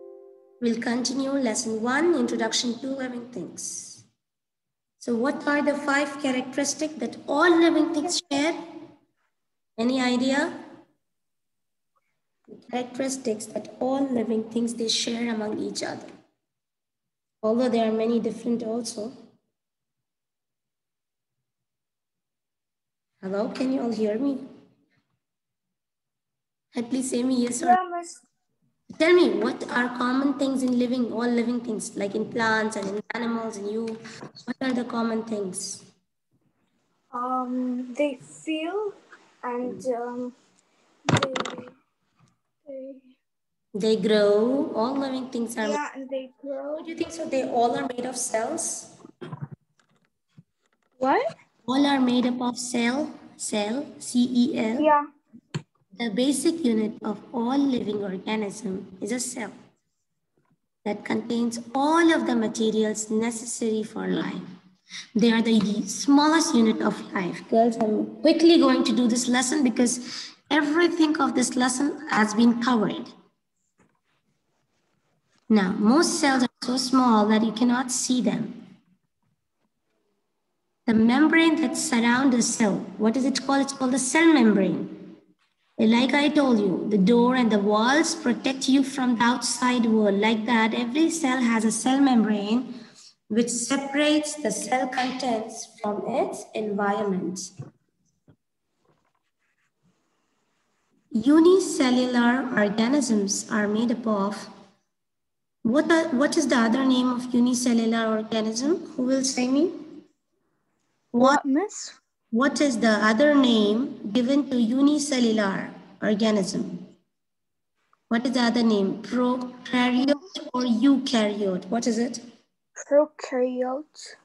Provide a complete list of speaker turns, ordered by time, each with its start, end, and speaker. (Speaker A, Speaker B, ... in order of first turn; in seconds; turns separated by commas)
Speaker A: 0.6-4.0, Speaker A: 5.0-8.6, Speaker A: 9.8-10.5, Speaker A: 12.5-16.1, Speaker A: 17.4-19.2, Speaker A: 23.2-24.4, Speaker A: 26.7-27.8, Speaker B: 27.6-28.2, Speaker A: 28.9-35.9, Speaker B: 37.1-40.4, Speaker B: 41.1-41.8, Speaker B: 42.6-43.1, Speaker A: 43.8-45.8, Speaker B: 45.6-46.9, Speaker A: 46.8-48.9, Speaker B: 51.0-51.2, Speaker A: 51.7-54.9, Speaker B: 54.8-55.0, Speaker A: 56.0-59.5, Speaker A: 60.9-64.4, Speaker A: 65.2-73.1, Speaker A: 75.5-78.6, Speaker A: 80.9-85.1, Speaker A: 85.8-92.7, Speaker A: 93.3-97.5, Speaker A: 101.1-104.5, Speaker A: 105.7-109.8, Speaker A: 111.1-111.4, Speaker B: 111.2-112.0, Speaker A: 112.3-116.9, Speaker A: 118.1-122.2, Speaker B: 122.8-124.2